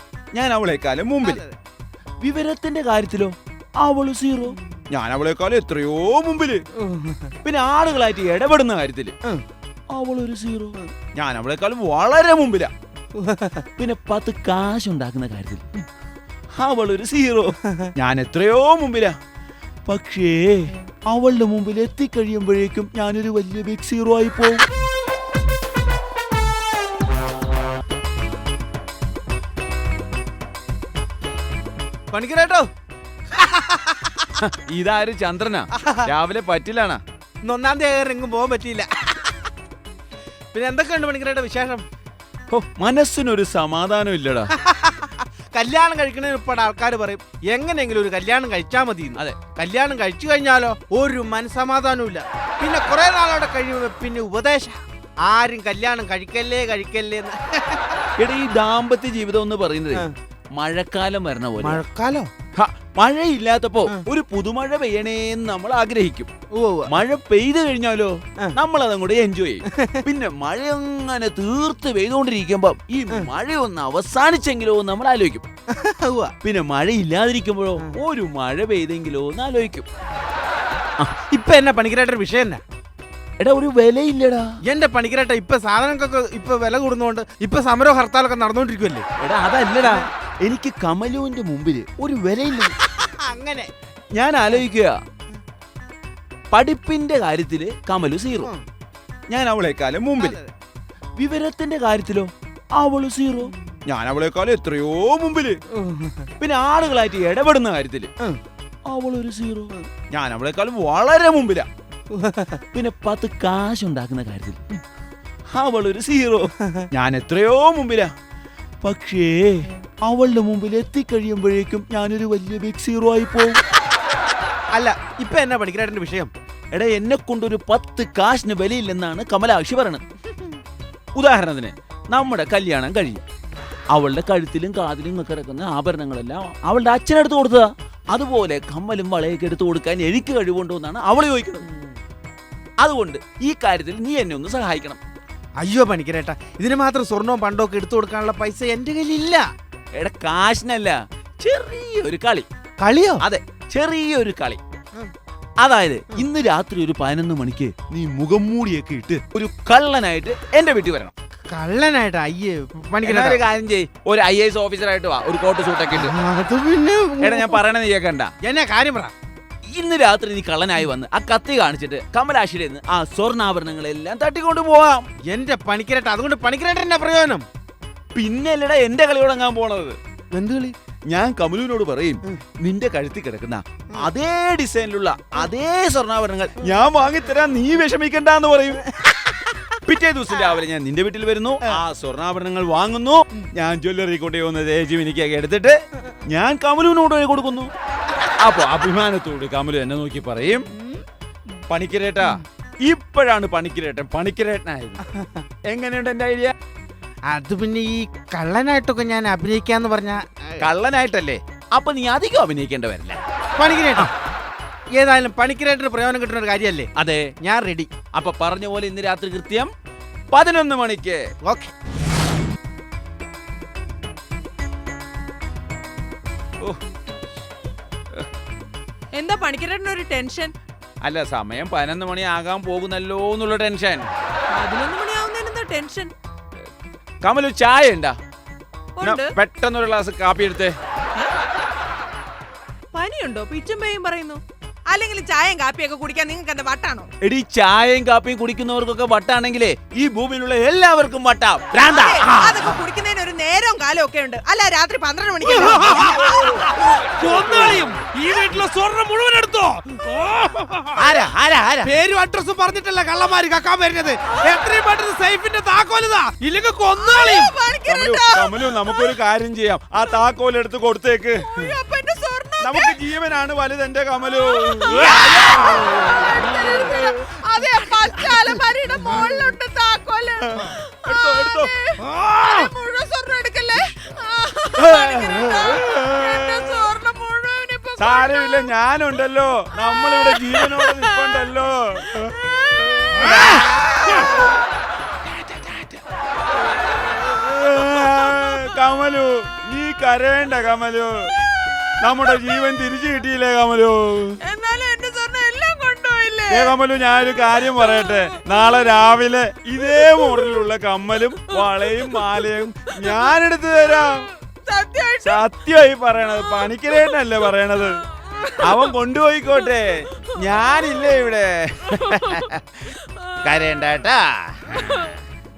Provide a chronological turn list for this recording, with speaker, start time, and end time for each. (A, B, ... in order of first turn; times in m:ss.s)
0:00.3-0:01.4 A
0:01.2-0:01.6 B
0:02.2-0:06.6 A
0:06.8-0:07.3 B
0:07.4-0:09.2 A
0:09.9-0:12.7 A
0:13.2-0:13.7 B
0:13.8-0:15.6 A
0:16.6-0:19.2 A
0:19.9-0:24.6 A
0:32.1-0:32.7 B
0:33.3-0:34.3 B
0:34.4-0:37.0 A
0:35.8-0:36.1 B
0:37.4-0:39.4 B
0:40.5-0:41.8 B
0:42.5-0:44.5 A
0:44.5-0:57.9 B
0:58.2-1:01.8 A
1:01.6-1:02.3 B
1:02.6-1:06.3 A
1:06.5-1:06.9 B
1:06.9-1:15.5 A
1:09.7-1:10.0 B
1:15.7-1:16.3 B
1:16.4-1:19.9 A
1:21.3-1:22.6 B
1:23.4-1:24.6 A
1:24.6-1:29.1 B
1:29.2-1:32.8 A
1:32.8-1:33.7 B
1:34.2-1:35.0 A
1:36.5-1:38.5 A
1:39.3-1:40.4 A
1:40.2-1:40.5 B
1:41.2-1:45.6 A
1:45.7-1:46.3 B
1:46.4-1:48.1 A
1:48.9-1:51.7 A
1:52.1-1:52.6 B
1:52.7-1:54.6 A
1:55.5-1:58.1 A
1:58.8-2:03.6 A
2:04.7-2:06.3 B
2:06.7-2:10.0 A
2:11.2-2:13.2 A
2:13.9-2:21.7 A
2:21.7-2:22.0 B
2:22.8-2:25.0 A
2:25.6-2:29.5 B
2:30.0-2:32.5 A
2:32.8-2:33.2 B
2:33.2-2:34.6 A
2:35.6-2:41.1 A
2:41.5-2:43.4 B
2:43.0-2:46.1 A
2:45.9-2:47.6 B
2:47.2-2:48.3 A
2:48.4-2:49.1 B
2:49.7-2:55.0 A
2:55.3-2:57.5 B
2:58.2-3:00.0 A
3:00.3-3:00.8 B
3:01.1-3:08.9 A
3:09.0-3:09.5 B
3:09.8-3:17.7 A
3:18.4-3:20.7 A
3:21.7-3:25.0 A
3:25.7-3:26.5 A
3:27.3-3:30.7 B
3:30.6-3:33.2 A
3:33.6-3:34.1 B
3:35.0-3:37.9 B
3:37.0-3:37.3 A
3:38.1-3:39.7 A
3:40.3-3:41.3 A
3:41.4-3:41.7 B
3:49.1-3:50.5 C
3:51.0-3:54.1 A
3:54.5-3:56.1 C
3:57.2-3:58.2 A
3:59.0-3:59.3 C
3:59.0-4:00.8 A
4:02.9-4:07.1 C
4:07.2-4:12.8 A
4:11.8-4:16.4 C
4:15.5-4:27.5 B
4:16.2-4:16.7 A
4:17.4-4:17.8 A
4:21.0-4:21.9 A
4:27.0-4:29.2 C
4:27.8-4:31.5 A
4:31.4-4:33.0 C
4:32.6-4:37.1 A
4:34.3-4:48.7 C
4:40.5-4:41.7 A
4:44.8-4:46.9 A
4:48.0-4:54.5 A
4:49.8-4:51.5 C
4:52.1-4:54.3 C
4:55.3-4:56.0 A
4:57.0-5:01.3 A
5:02.0-5:04.4 A
5:04.4-5:06.8 C
5:06.5-5:14.3 A
5:07.5-5:08.8 C
5:09.8-5:10.6 C
5:11.6-5:12.4 C
5:13.0-5:13.3 C
5:13.9-5:15.4 C
5:15.2-5:18.0 A
5:16.6-5:16.9 C
5:18.3-5:18.9 C
5:18.6-5:22.6 A
5:22.0-5:22.4 C
5:23.0-5:23.4 C
5:23.4-5:24.8 A
5:24.8-5:25.2 C